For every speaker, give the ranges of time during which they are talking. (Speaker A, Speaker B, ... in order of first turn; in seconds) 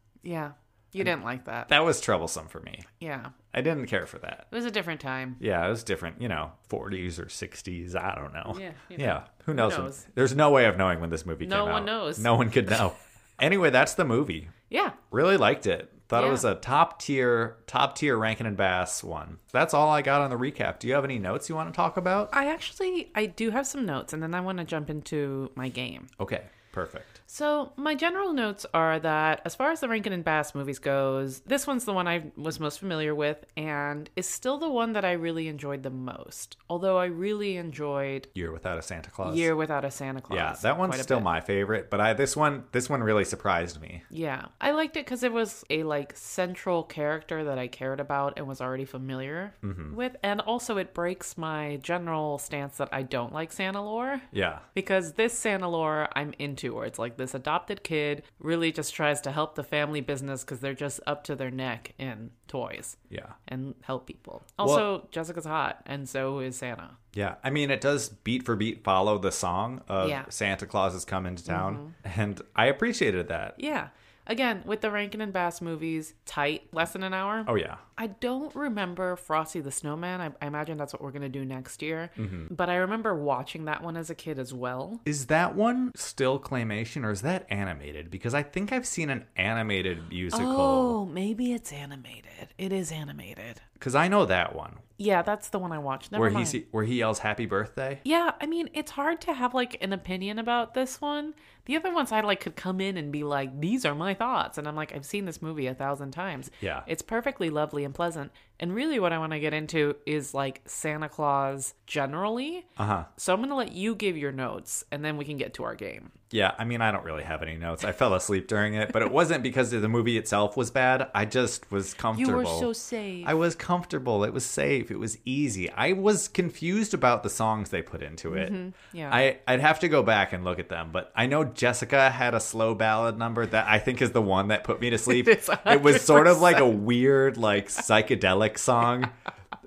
Speaker A: 0.2-1.7, 3.0-3.3, 4.5-5.4, 8.5-10.1, 11.4-12.3, 14.7-15.0, 16.1-16.5, 22.3-26.1, 27.3-38.3, 39.2-41.3, 44.1-67.0, 70.0-70.3, 71.5-72.0, 73.6-85.0, 90.3-93.6, 95.0-96.6, 98.0-116.1, 122.1-123.3, 128.3-129.2, 135.1-136.8
Speaker B: 1.7-2.9, 3.5-4.5, 5.4-14.5, 15.1-22.3, 26.2-27.2, 38.4-39.5, 40.3-44.0, 49.6-50.0, 54.3-54.6, 63.1-63.4, 64.6-64.9, 67.1-73.6, 77.5-77.8, 82.2-82.5, 85.0-91.0, 93.8-94.8, 96.1-98.0, 106.6-106.9, 112.8-113.1, 116.3-122.7, 123.2-128.6, 129.1-139.1